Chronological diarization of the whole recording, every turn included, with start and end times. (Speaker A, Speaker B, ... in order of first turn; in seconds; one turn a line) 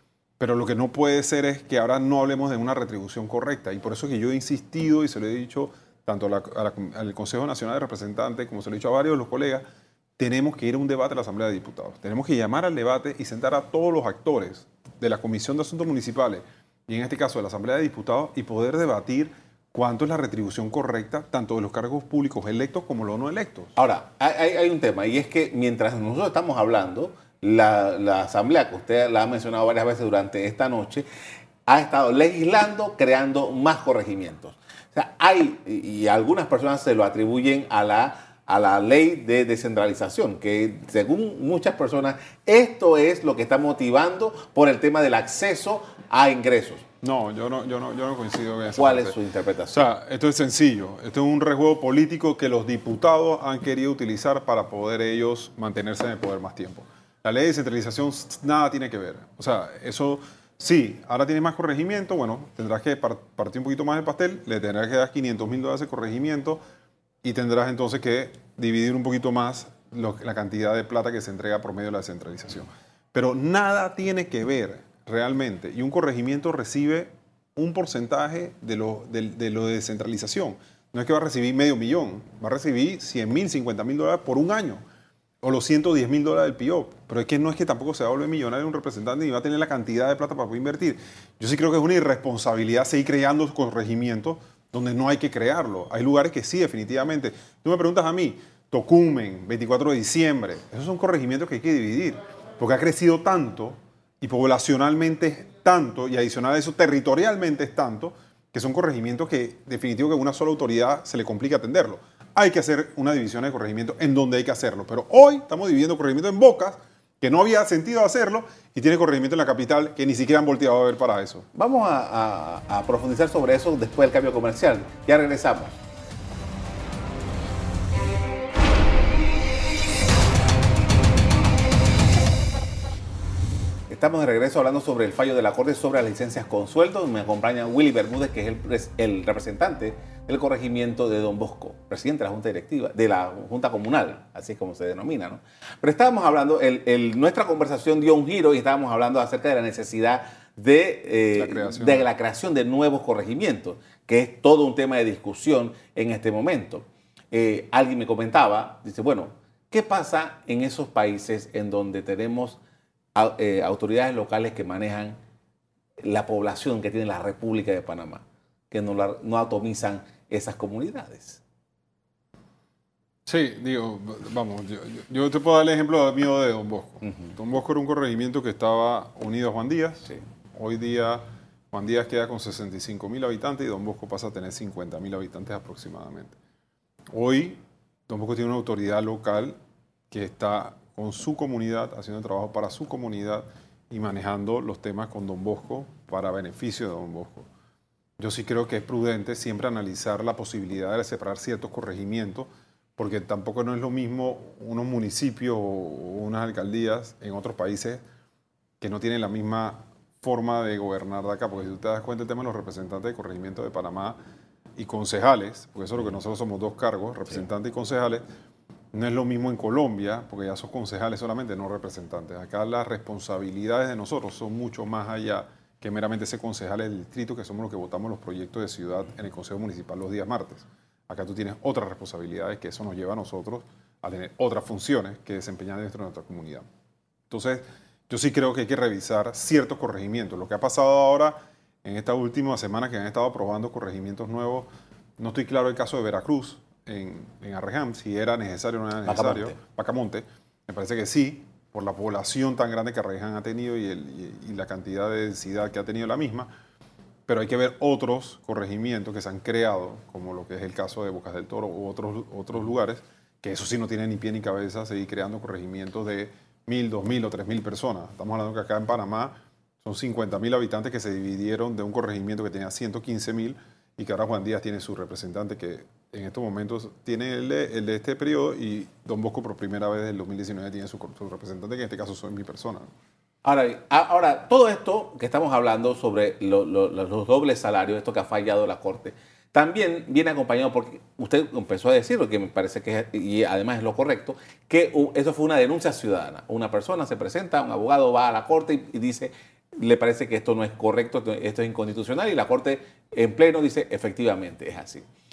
Speaker A: 0.4-9.6
Speaker A: 10.2-23.7
Speaker B: 23.8-31.1
Speaker B: 31.6-46.8
Speaker A: 47.0-49.1
Speaker B: 48.8-49.9
Speaker A: 49.7-66.6
Speaker A: 67.2-84.8
Speaker A: 85.4-121.5
Speaker B: 121.5-125.8
Speaker B: 133.9-162.6
Speaker A: 151.3-152.1
Speaker B: 163.1-165.2
Speaker B: 166.0-171.4
Speaker A: 173.2-186.3
Speaker A: 187.1-189.6
Speaker A: 190.1-197.5
Speaker A: 198.2-208.0
Speaker A: 208.8-214.2
Speaker A: 214.8-218.2
Speaker A: 218.9-236.6
Speaker A: 237.3-256.5
Speaker B: 249.1-249.6
Speaker A: 257.3-282.9
Speaker B: 283.4-305.1